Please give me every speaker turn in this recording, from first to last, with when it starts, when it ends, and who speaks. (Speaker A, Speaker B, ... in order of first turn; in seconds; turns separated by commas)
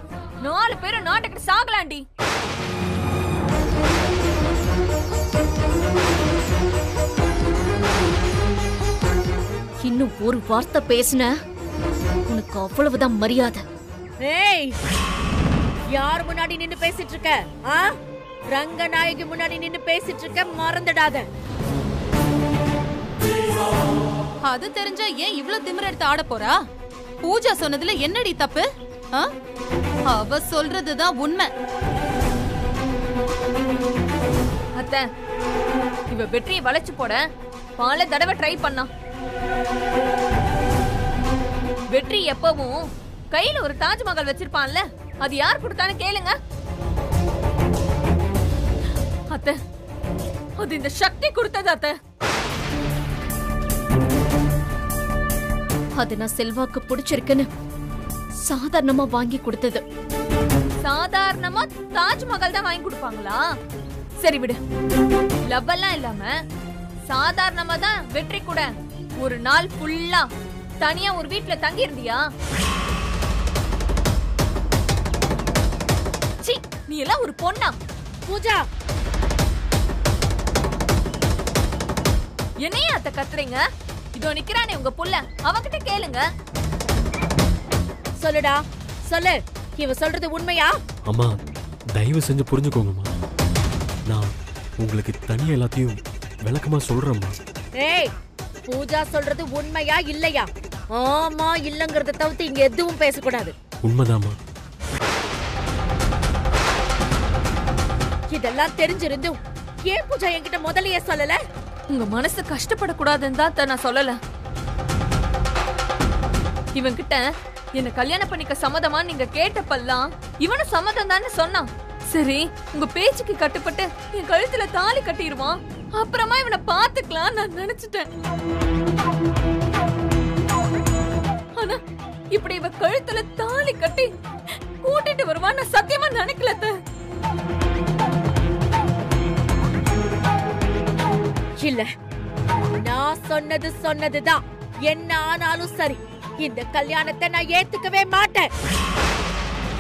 Speaker A: 0.4-2.0, Speaker B: 9.8-11.3, Speaker B: 12.3-13.6, Speaker C: 14.2-14.8, Speaker C: 15.9-17.9, Speaker C: 18.5-21.3, Speaker D: 24.5-26.6, Speaker D: 27.2-29.3, Speaker D: 30.1-31.5, Speaker A: 34.8-35.0, Speaker A: 36.1-37.2, Speaker A: 37.8-38.9, Speaker A: 41.9-46.4, Speaker A: 50.6-52.0, Speaker B: 56.0-57.5, Speaker B: 58.4-59.8, Speaker A: 60.8-63.5, Speaker A: 64.2-64.6, Speaker A: 65.5-66.3, Speaker A: 67.1-70.3, Speaker A: 70.8-72.2, Speaker A: 76.4-77.8, Speaker C: 78.3-78.7, Speaker A: 82.6-83.6, Speaker A: 84.2-86.2, Speaker C: 88.2-90.8, Speaker E: 91.1-91.4, Speaker E: 92.0-93.1, Speaker E: 94.1-97.4, Speaker C: 97.8-98.1, Speaker C: 98.7-103.5, Speaker E: 103.8-104.4, Speaker C: 108.3-111.4, Speaker A: 111.9-114.2, Speaker A: 116.8-117.2, Speaker A: 117.8-128.1, Speaker A: 132.3-134.1, Speaker A: 134.8-136.7, Speaker C: 141.6-141.9, Speaker C: 142.8-148.5